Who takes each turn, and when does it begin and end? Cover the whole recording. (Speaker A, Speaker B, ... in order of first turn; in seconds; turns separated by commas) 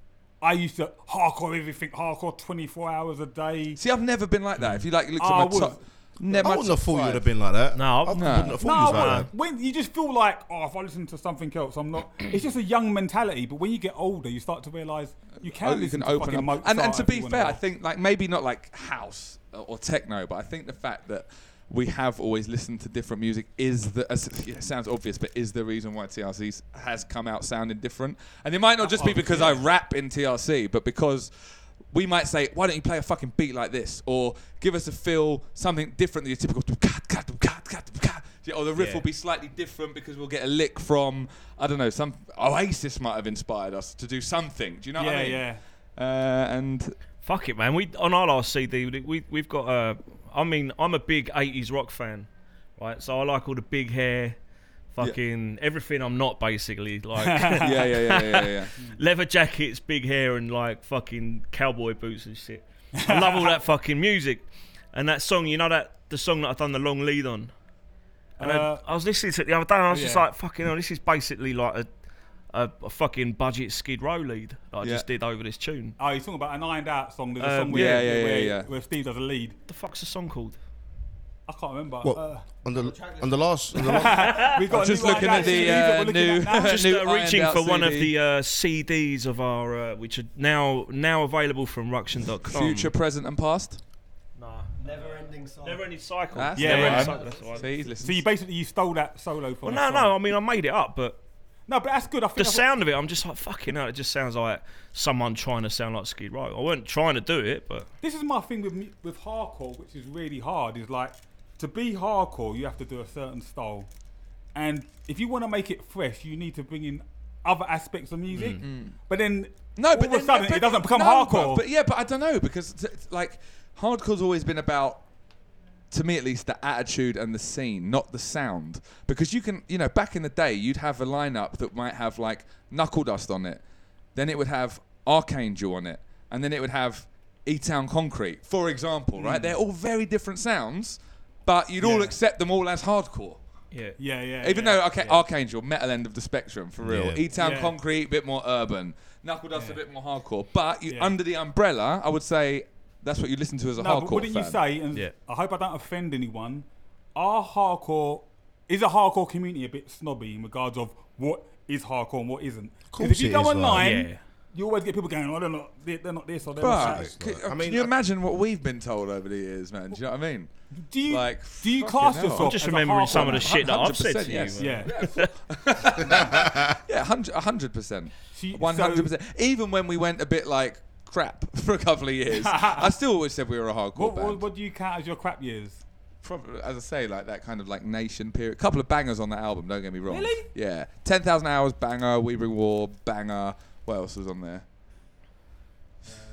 Speaker A: 0.4-3.8, Speaker B: 3.8-7.2, Speaker A: 4.7-6.6, Speaker C: 6.4-9.3, Speaker D: 7.7-9.3, Speaker B: 8.1-8.6, Speaker A: 8.6-17.6, Speaker B: 15.4-46.9, Speaker A: 28.8-29.6, Speaker A: 38.8-39.0, Speaker A: 45.0-45.6, Speaker D: 47.2-54.4, Speaker D: 54.9-67.5, Speaker A: 57.1-57.8, Speaker B: 57.6-58.8, Speaker A: 63.0-63.6, Speaker A: 68.4-68.8, Speaker D: 68.4-71.9, Speaker A: 69.9-70.2, Speaker D: 72.5-76.0, Speaker B: 74.8-75.1, Speaker A: 76.0-79.5, Speaker D: 77.4-78.1, Speaker B: 77.7-78.7, Speaker D: 79.7-80.6, Speaker A: 81.5-82.4, Speaker C: 82.0-84.6, Speaker E: 82.7-83.9, Speaker A: 83.8-86.8, Speaker D: 84.2-84.7, Speaker B: 84.7-88.1, Speaker E: 85.2-85.8, Speaker D: 86.6-92.9, Speaker B: 92.4-93.8, Speaker D: 94.3-95.0, Speaker E: 94.8-95.9, Speaker D: 95.6-97.9, Speaker B: 96.3-98.2, Speaker A: 96.5-97.2, Speaker E: 96.8-97.7, Speaker A: 98.0-100.2, Speaker D: 99.6-101.2, Speaker A: 101.7-102.7, Speaker D: 102.4-107.9, Speaker A: 108.0-113.9, Speaker A: 114.5-121.6, Speaker B: 118.4-119.0, Speaker B: 119.8-125.0, Speaker B: 125.9-133.6, Speaker B: 134.1-143.4, Speaker A: 139.2-139.5, Speaker A: 141.8-142.1, Speaker D: 143.7-144.0, Speaker A: 144.0-144.9, Speaker B: 144.4-154.6, Speaker C: 146.8-147.2, Speaker A: 147.3-147.8, Speaker A: 150.9-151.1, Speaker A: 153.8-167.1, Speaker C: 162.9-163.9, Speaker D: 163.8-164.2, Speaker B: 166.6-172.5, Speaker C: 166.7-167.9, Speaker A: 170.7-173.7, Speaker D: 172.3-175.3, Speaker B: 173.4-184.4, Speaker A: 174.6-175.2, Speaker A: 178.3-179.1, Speaker A: 182.3-182.9, Speaker A: 183.9-185.8, Speaker B: 186.2-194.6, Speaker A: 190.1-190.5